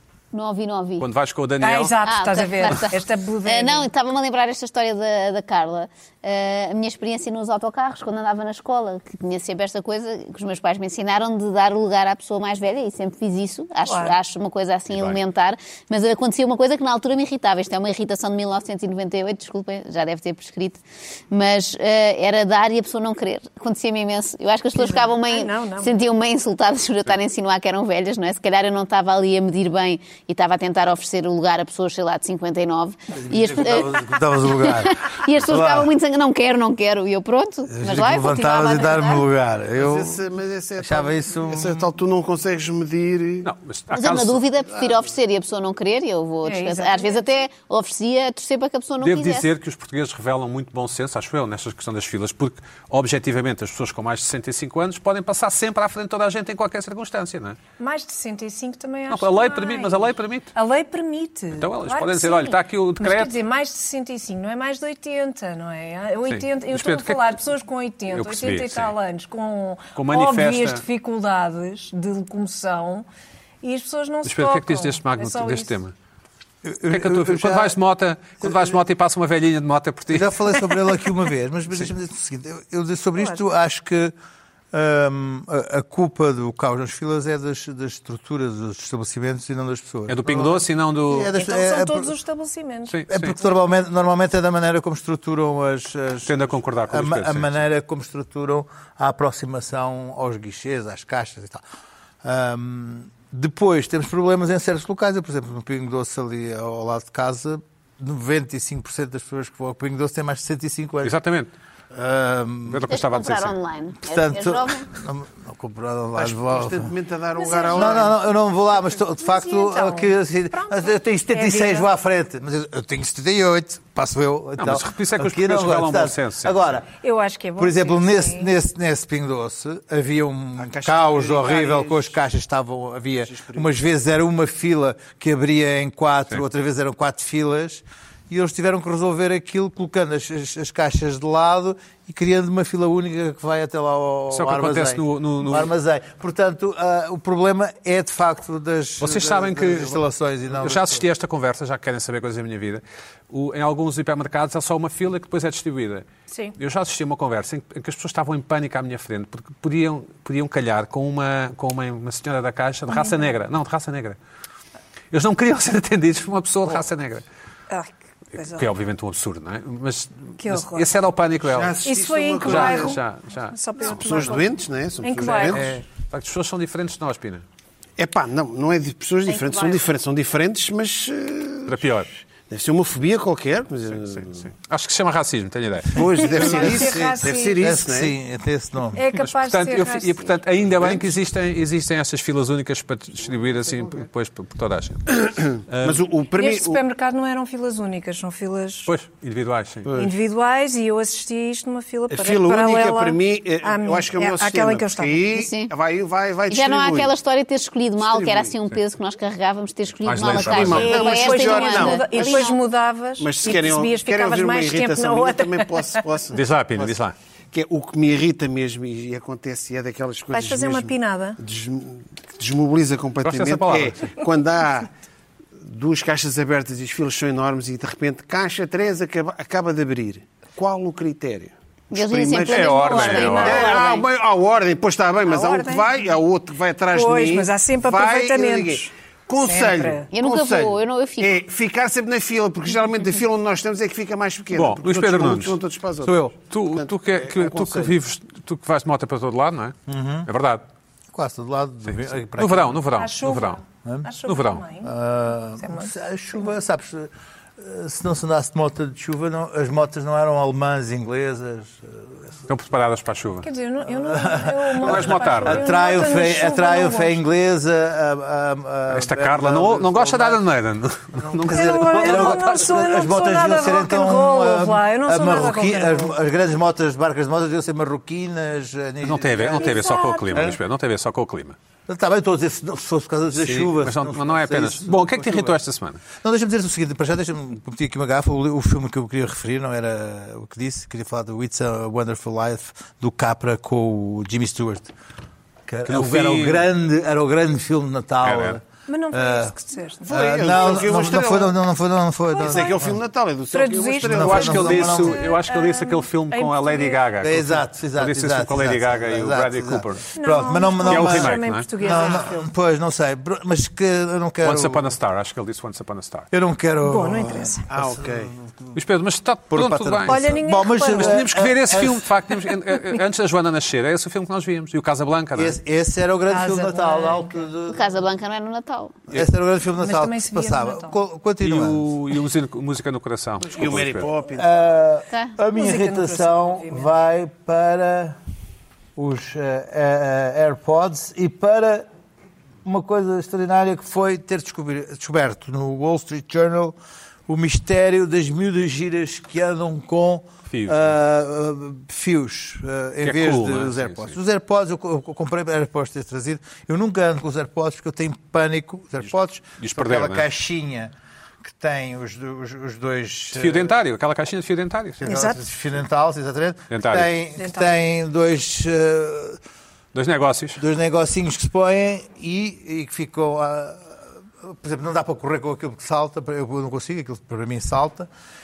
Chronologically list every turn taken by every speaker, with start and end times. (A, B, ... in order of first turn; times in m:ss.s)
0:00.3-0:01.1 A
0:01.0-0:02.0 B
0:01.6-0:03.9 C
0:02.0-0:39.2 A
0:13.9-0:14.1 C
0:14.9-0:15.2 B
0:24.8-0:25.9 C
0:33.2-0:35.9 D
0:37.7-0:40.2 D
0:39.8-0:43.5 E
0:40.8-0:41.9 D
0:43.4-0:44.4 B
0:43.9-0:49.5 A
0:46.4-0:47.2 C
0:49.0-0:57.6 B
0:57.8-1:00.0 C
0:59.1-1:00.5 B
1:00.6-1:13.1 C
1:01.6-1:03.4 B
1:06.3-1:07.4 B
1:08.1-1:09.0 B
1:10.0-1:10.8 B
1:13.6-1:15.8 C
1:14.2-1:15.9 B
1:16.6-1:17.8 D
1:16.9-1:20.4 B
1:18.4-1:18.8 D
1:20.1-1:24.1 D
1:24.7-1:32.1 D
1:30.1-1:31.3 B
1:31.3-1:33.0 C
1:32.9-1:33.4 B
1:33.1-1:41.6 D
1:36.2-1:37.6 B
1:42.2-1:51.1 D
1:51.0-1:51.5 B
1:51.9-1:52.9 D
1:52.7-1:53.6 B
1:52.9-1:54.9 A
1:54.0-1:56.9 D
1:56.2-1:58.2 E
1:57.4-1:58.1 C
1:57.7-2:06.9 D
1:59.1-2:01.9 C
2:04.6-2:06.8 B
2:07.0-2:08.5 C
2:07.6-2:31.0 D
2:10.6-2:12.2 E
2:13.3-2:13.7 E
2:24.3-2:25.7 B
2:29.0-2:30.0 B
2:30.5-2:44.2 B
2:36.3-2:36.6 C
2:45.1-2:47.2 B
2:47.7-2:48.7 C
2:48.3-2:51.8 B
2:50.4-2:50.9 C
2:51.4-2:53.0 E
2:51.8-2:55.7 C
2:52.4-2:54.4 B
2:53.8-2:55.7 E
2:55.3-2:57.4 B
2:58.0-3:04.5 E
2:59.3-2:59.8 C
3:01.7-3:02.1 B
3:04.1-3:06.7 B
3:05.9-3:08.1 E
3:06.2-3:07.7 C
3:06.6-3:09.0 D
3:08.9-3:10.4 C
3:09.1-3:16.0 B
3:15.2-3:16.8 E
3:16.4-3:18.9 C
3:18.9-3:19.9 B
3:19.9-3:20.1 E
3:20.0-3:25.3 C
3:22.1-3:27.1 E
3:25.3-3:25.7 A
3:26.5-3:32.6 A
3:28.0-3:28.5 E
3:30.0-3:31.0 B
3:30.2-3:32.5 E
3:30.7-3:35.9 C
3:33.2-3:37.0 E
3:36.3-3:37.2 B
3:37.5-3:44.9 E
3:40.3-3:41.4 C
3:43.2-3:44.0 B
3:45.6-4:08.0 E
3:51.9-3:54.0 A
3:52.5-3:53.8 B
3:53.3-3:54.0 C
3:55.2-3:56.0 C
3:56.9-4:00.1 C
4:00.1-4:01.4 A
4:04.5-4:05.6 B
4:06.3-4:10.6 B
4:09.9-4:10.3 D
4:11.1-4:12.8 D
4:11.9-4:13.6 B
4:12.9-4:15.0 C
4:14.2-4:14.6 B
4:14.8-4:22.1 D
4:15.6-4:16.0 C
4:22.5-4:23.5 B
4:23.4-4:27.2 C
4:23.9-4:30.4 D
4:24.8-4:25.7 B
4:28.9-4:32.6 B
4:31.2-4:40.6 D
4:31.5-4:36.2 C
4:39.0-4:41.6 B
4:39.5-4:40.6 C
4:41.9-4:45.6 D
4:43.4-4:46.0 B
4:46.1-4:54.9 D
4:55.7-4:59.5 D
4:55.8-4:56.7 B
4:58.2-4:58.6 B
4:58.9-5:00.9 C
5:00.1-5:01.6 E
5:00.1-5:02.9 D
5:02.4-5:02.9 C
5:02.4-5:05.0 E
5:03.5-5:07.0 C
5:04.0-5:05.2 D
5:04.1-5:10.1 B
5:07.2-5:14.9 D
5:10.2-5:12.4 C
5:10.9-5:11.7 B
5:14.4-5:16.3 B
5:16.3-5:18.3 D
5:16.8-5:17.7 C
5:17.7-5:18.3 E
5:18.7-5:20.2 B
5:19.5-5:22.5 D
5:20.1-5:21.3 C
5:20.8-5:25.6 B
5:25.4-5:27.9 D
5:26.3-5:27.5 C
5:27.7-5:29.0 A
5:29.1-5:32.0 D
5:29.8-5:31.0 C
5:31.4-5:34.1 B
5:33.5-5:34.6 E
5:34.3-5:38.2 D
5:35.5-5:36.9 C
5:39.0-5:41.9 D
5:42.6-5:46.8 D
5:47.3-6:03.8 D
5:50.5-5:50.9 B
5:53.0-5:54.2 B
5:59.6-6:00.3 B
6:03.3-6:05.1 B
6:05.0-6:09.4 D
6:05.0-6:05.4 C
6:06.7-6:07.1 B
6:07.4-6:07.7 C
6:09.9-6:10.6 B
6:10.6-6:18.1 D